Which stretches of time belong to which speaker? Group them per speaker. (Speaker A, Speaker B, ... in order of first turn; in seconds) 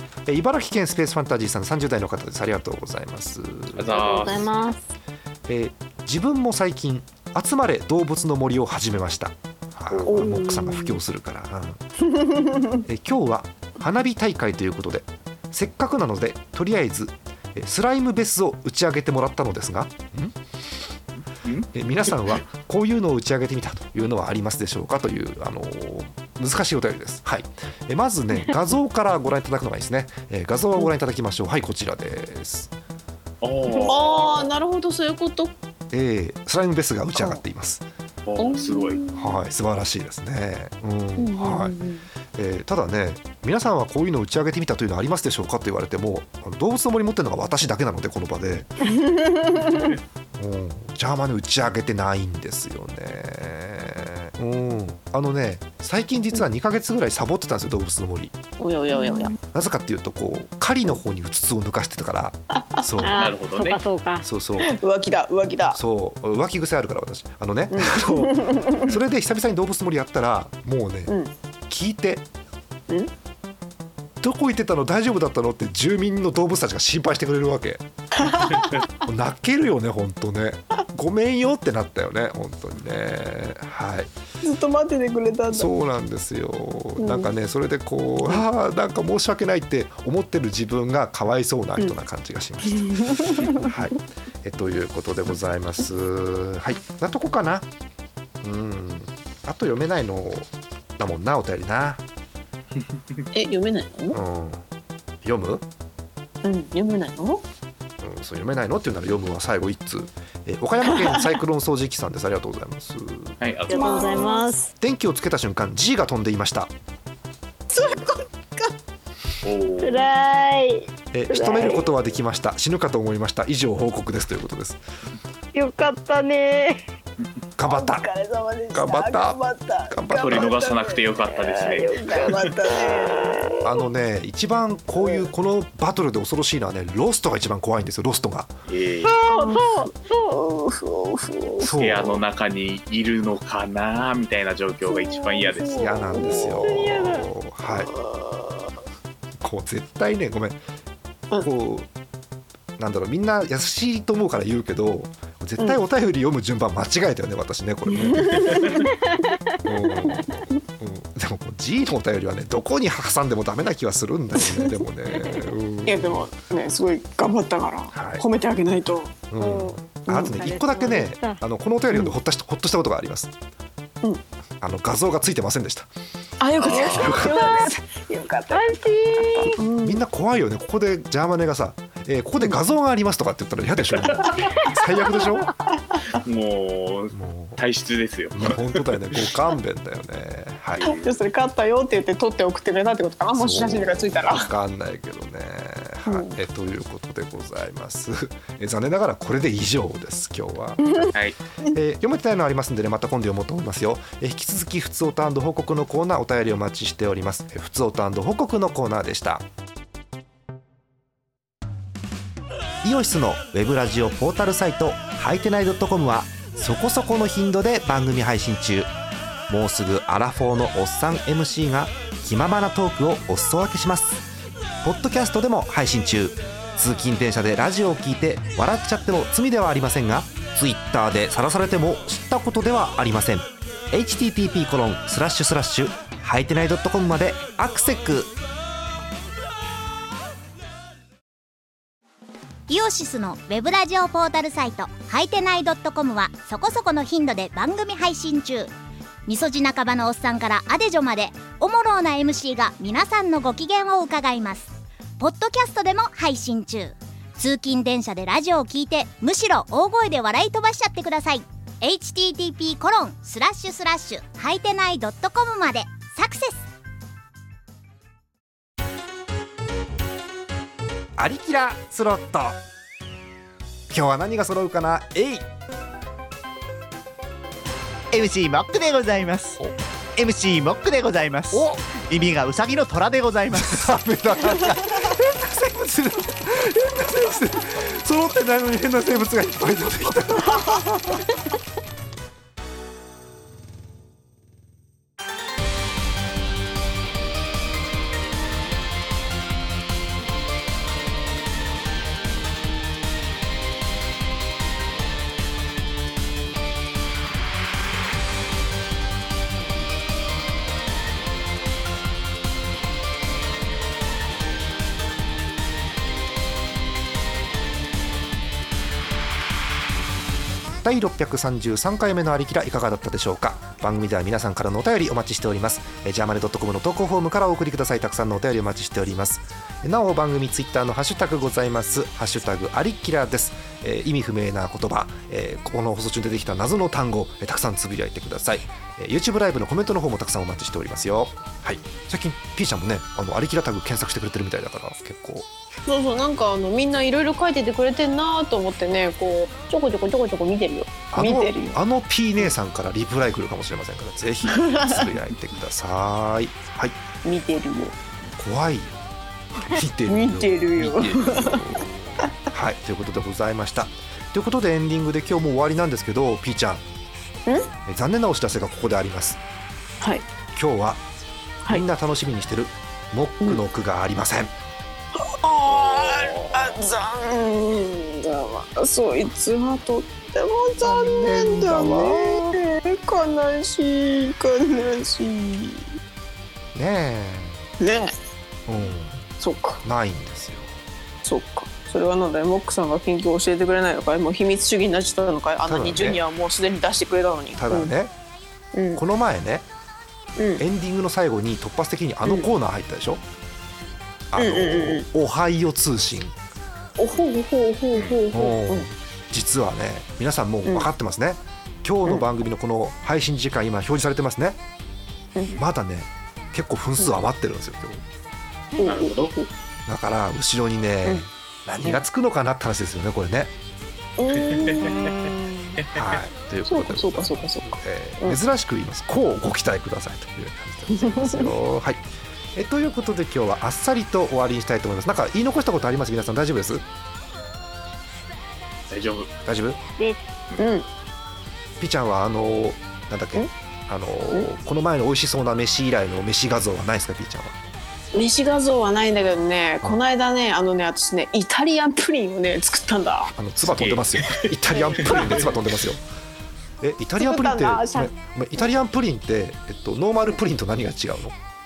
Speaker A: 0.3-4.4, 5.5-11.8, 12.8-20.4, 21.7-32.7, 35.9-37.8, 39.1-41.8, 42.3-48.7, 50.4-58.3, 59.5-63.2, 64.2-64.7, 65.7-71.1, 71.7-72.2, 74.2-77.8, 79.0-84.1, 85.5-97.7, 98.4-102.0, 104.1-104.6, 105.2-105.6, 108.0-113.4, 114.8-116.7, 121.1-124.8, 127.6-128.1, 128.7-130.5, 133.6-138.5, 141.6-142.2, 145.8-147.9, 149.4-150.6, 151.4-151.9, 152.8-158.8, 159.6-166.2, 167.9-168.2, 169.3-173.3, 174.6-175.9, 176.8-177.7, 179.8-185.5, 187.1-187.6, 188.3-190.9, 193.3-201.1, 201.7-209.4, 212.8-218.9, 219.5-224.2, 224.8-238.3, 271.2-272.6, 273.9-275.5, 281.5-281.8, 283.5-290.9, 320.8-345.4, 351.1-357.0, 358.4-359.0, 359.6-366.8, 367.9-369.4, 370.6-371.0, 371.7-374.5, 380.8-382.6, 386.7-387.6, 388.7-389.2, 389.8-390.7, 395.7-396.2, 397.6-398.1, 398.9-399.7, 400.6-403.2, 404.3-406.3, 408.3-414.6, 415.6-418.0, 419.9-423.5, 425.9-432.0, 432.6-436.8, 439.4-439.8, 441.8-447.6, 453.4-456.0, 456.8-461.3
Speaker B: 3.7-4.5, 9.9-10.3, 33.4-34.5, 38.2-39.0, 63.1-63.8, 113.4-114.3, 119.4-120.1, 130.2-132.5, 138.7-139.1, 141.7-146.7, 176.6-177.2, 183.9-184.3, 186.2-188.9, 190.8-191.1, 375.7-376.8, 407.9-408.2, 418.8-419.3, 424.4-426.0, 438.9-439.3, 453.7-455.6
Speaker C: 4.0-4.7, 10.1-11.0, 12.1-12.8, 33.7-35.5, 37.1-37.4, 38.4-39.4, 41.2-42.1, 48.8-49.9, 58.6-59.4, 62.5-62.8, 64.6-65.8, 67.7-68.9, 71.1-71.3, 78.2-78.7, 84.4-85.7, 87.0-87.3, 92.6-93.7, 103.3-104.2, 106.4-107.4, 110.8-111.3, 113.7-114.5, 117.7-118.7, 127.6-133.7, 139.2-141.7, 144.9-148.7, 157.9-158.9, 164.3-164.8, 165.8-169.2, 170.1-170.4, 176.4-180.0, 190.8-194.5, 196.1-196.3, 345.9-351.8, 354.5-355.1, 357.2-357.9, 360.1-362.2, 370.0-370.3, 375.2-385.9, 387.8-388.1, 389.4-389.8, 391.2-397.9, 398.7-399.0, 400.4-400.6, 402.2-402.5, 404.4-405.1, 407.0-408.9, 418.8-419.5, 424.2-425.5, 426.7-428.4, 430.9-431.5, 440.6-440.9, 448.1-453.3, 454.9-455.4, 457.2-458.1
Speaker D: 58.9-59.3, 63.0-64.3, 113.7-114.7, 119.8-121.9, 125.5-126.8, 131.8-133.6, 139.1-140.2, 169.4-169.8, 170.3-171.4, 177.1-177.7, 178.5-179.6, 440.0-440.2
Speaker E: 242.7-248.7, 249.3-266.6
Speaker F: 278.1-279.6, 280.1-284.0